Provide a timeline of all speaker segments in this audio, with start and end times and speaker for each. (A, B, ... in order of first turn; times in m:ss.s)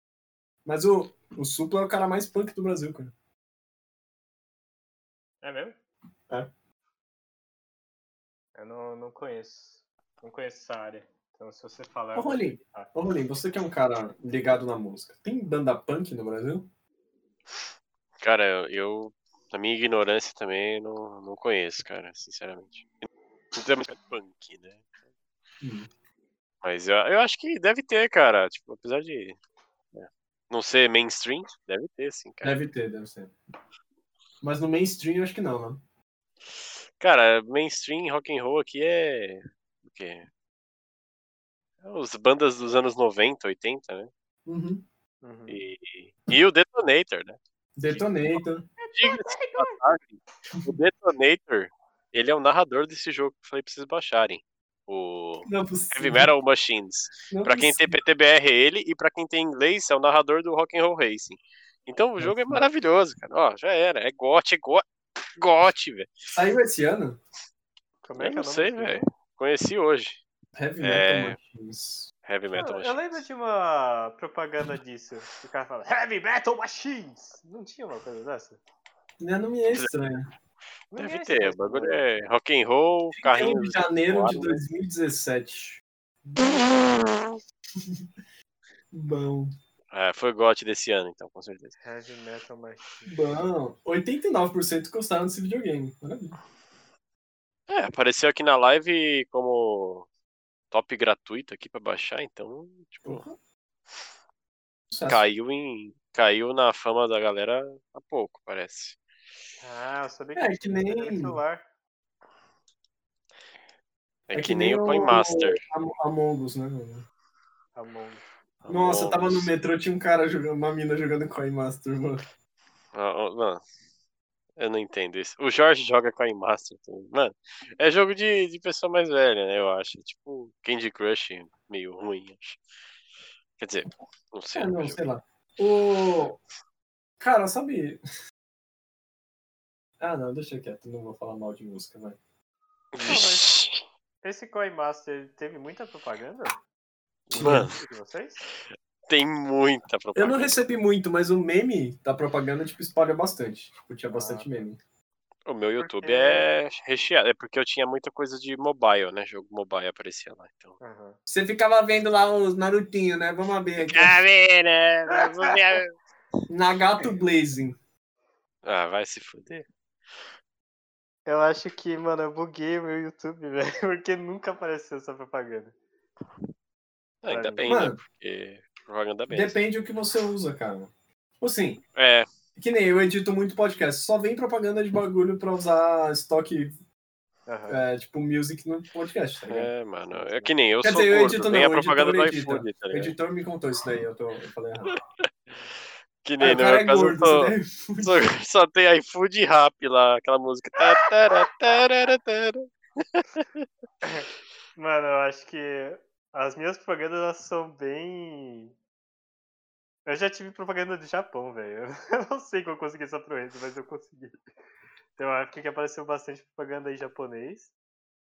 0:00.6-0:03.1 A
0:05.4-0:05.8 B
0:08.6-0:12.9 B
0:12.2-0:16.7 A
0:18.2-0:24.8 C
0:25.6-0:25.9 A
0:26.6-0:29.4 C
0:29.9-0:32.6 C
0:32.4-0:33.4 A
0:34.4-0:35.8 A
0:37.0-0:40.3 C
0:41.8-0:44.1 C
0:44.5-0:44.8 A
0:45.2-0:45.6 B
0:45.5-0:47.4 C
0:47.8-0:48.7 A
0:48.8-0:49.8 B
0:49.0-1:04.8 C
0:55.4-0:56.3 A
0:57.3-0:58.0 A
1:02.2-1:02.6 A
1:05.4-1:06.3 C
1:06.3-1:07.2 A
1:08.0-1:09.0 B
1:08.2-1:10.2 C
1:10.6-1:12.1 A
1:10.8-1:11.4 C
1:12.2-1:13.2 C
1:12.6-1:18.6 B
1:19.2-1:20.3 A
1:20.9-1:22.0 B
1:21.0-1:24.6 C
1:23.2-1:26.7 A
1:26.4-1:27.2 C
1:27.8-1:28.0 A
1:28.9-1:29.6 A
1:29.9-1:31.8 C
1:31.8-1:33.2 B
1:33.1-1:36.4 A
1:37.7-1:40.1 C
1:40.7-1:43.2 C
1:43.0-1:43.4 A
1:44.9-1:45.2 A
1:45.1-1:49.0 C
1:49.6-1:51.6 B
1:50.4-1:51.4 A
1:54.3-1:55.6 C
1:54.3-1:57.1 A
1:57.8-1:58.3 B
1:58.6-1:59.5 C
1:58.7-2:02.2 A
2:02.9-2:03.6 C
2:04.6-2:12.6 C
2:13.6-2:15.0 C
2:14.5-2:16.4 A
2:17.2-2:18.0 A
2:20.0-2:22.2 A
2:22.9-2:23.8 C
2:23.0-2:23.5 B
2:24.2-2:26.6 B
2:27.3-2:28.4 B
2:27.3-2:27.7 A
2:27.3-2:27.8 C
2:29.1-2:30.6 C
2:30.2-2:34.8 A
2:34.1-2:34.7 B
2:35.5-2:40.8 C
2:35.8-2:36.5 B
2:40.8-2:41.2 B
2:41.3-2:44.2 A
2:43.8-2:45.9 C
2:46.5-2:47.8 A
2:48.6-2:49.7 C
2:51.3-2:55.8 B
2:57.2-2:59.6 C
2:57.3-2:57.7 B
2:57.7-2:58.0 A
2:59.3-3:01.8 A
3:02.0-3:02.3 C
3:02.6-3:06.8 A
3:07.5-3:07.8 B
3:07.7-3:09.7 A
3:09.5-3:13.1 C
3:10.1-3:10.5 B
3:10.8-3:14.9 A
3:16.2-3:23.7 C
3:16.4-3:18.2 A
3:24.0-3:28.7 B
3:30.1-3:34.4 B
3:35.2-3:37.7 B